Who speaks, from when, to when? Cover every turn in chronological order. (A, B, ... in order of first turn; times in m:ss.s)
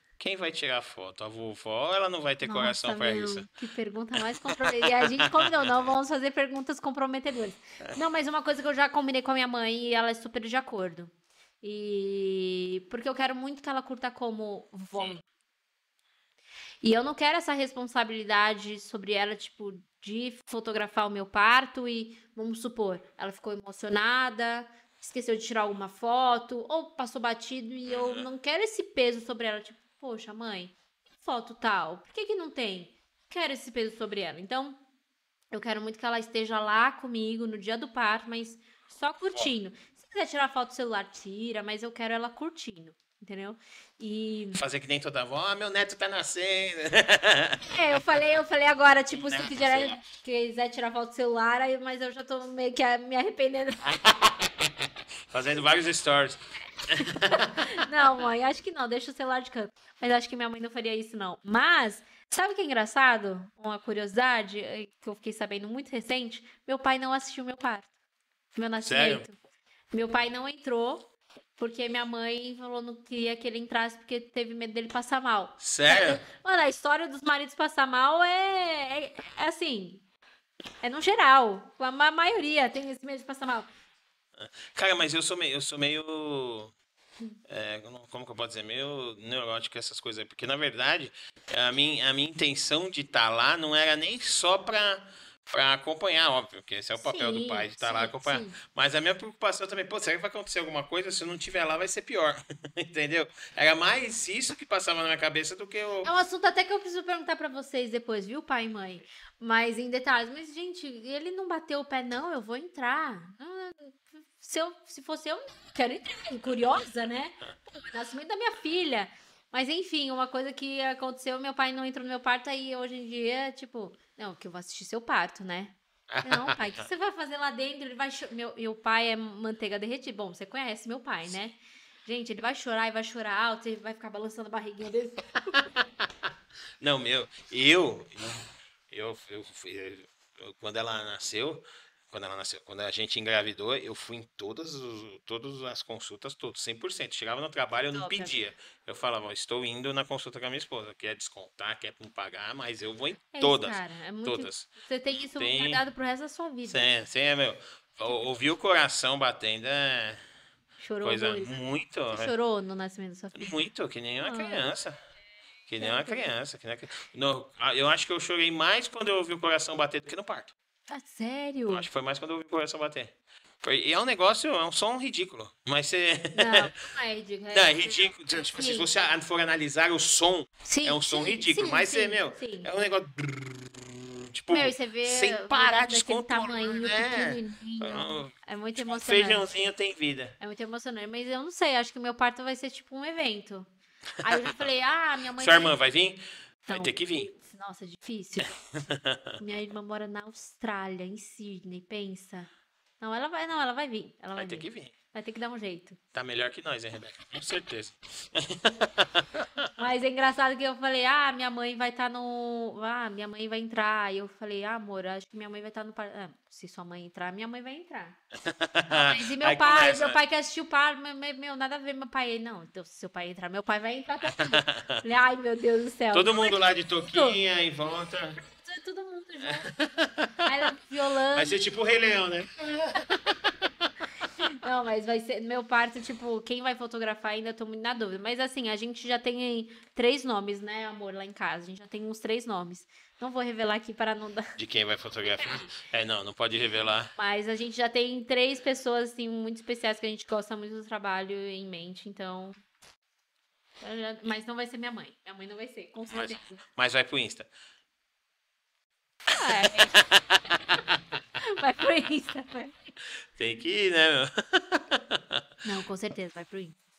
0:00.2-0:03.5 A
0:02.4-0:15.2 B
0:04.1-0:05.7 A
0:16.8-0:34.8 B
0:27.9-0:28.2 A
0:35.5-0:44.6 B
0:44.6-0:48.0 A
0:47.7-0:54.0 B
0:49.1-0:50.0 A
0:54.0-0:57.8 A
0:57.0-1:07.9 B
1:08.6-1:09.3 B
1:08.8-1:09.2 A
1:09.9-1:20.0 B
1:15.6-1:16.2 A
1:20.8-1:23.7 B
1:24.4-1:26.7 A
1:27.5-1:46.1 A
1:37.0-1:38.6 B
1:46.0-2:15.6 B
2:06.1-2:06.6 A
2:16.8-2:34.7 A
2:27.9-2:28.3 B
2:33.3-2:36.9 B
2:35.3-2:35.8 A
2:36.7-2:40.2 A
2:40.8-2:41.6 B
2:41.0-2:42.3 A
2:42.1-2:43.6 B
2:43.3-2:45.0 A
2:44.2-2:44.6 B
2:45.7-2:50.5 A
2:45.8-2:46.3 B
2:50.9-2:51.9 B
2:51.7-2:56.7 A
2:56.3-2:58.9 B
2:57.5-3:10.4 A
3:00.6-3:02.7 B
3:04.5-3:09.6 B
3:10.4-3:13.7 B
3:14.2-3:15.8 B
3:15.4-3:17.3 A
3:16.7-3:18.6 B
3:18.5-3:19.4 A
3:19.4-3:26.0 B
3:24.4-3:24.9 A
3:26.1-3:29.7 A
3:29.8-3:38.2 B
3:38.4-3:40.2 A
3:38.9-3:47.4 B
3:44.4-3:45.0 A
3:46.1-3:48.4 A
3:48.5-3:49.7 B
3:49.4-3:50.5 A
3:50.4-3:51.6 B
3:51.3-3:53.5 A
3:54.5-4:04.6 B
4:04.6-4:07.1 A
4:07.2-4:12.6 B
4:13.8-4:16.6 B
4:16.1-4:17.5 A
4:19.3-4:20.0 B
4:19.4-4:21.0 A
4:21.4-4:22.9 B
4:23.1-4:25.4 A
4:25.6-4:26.8 B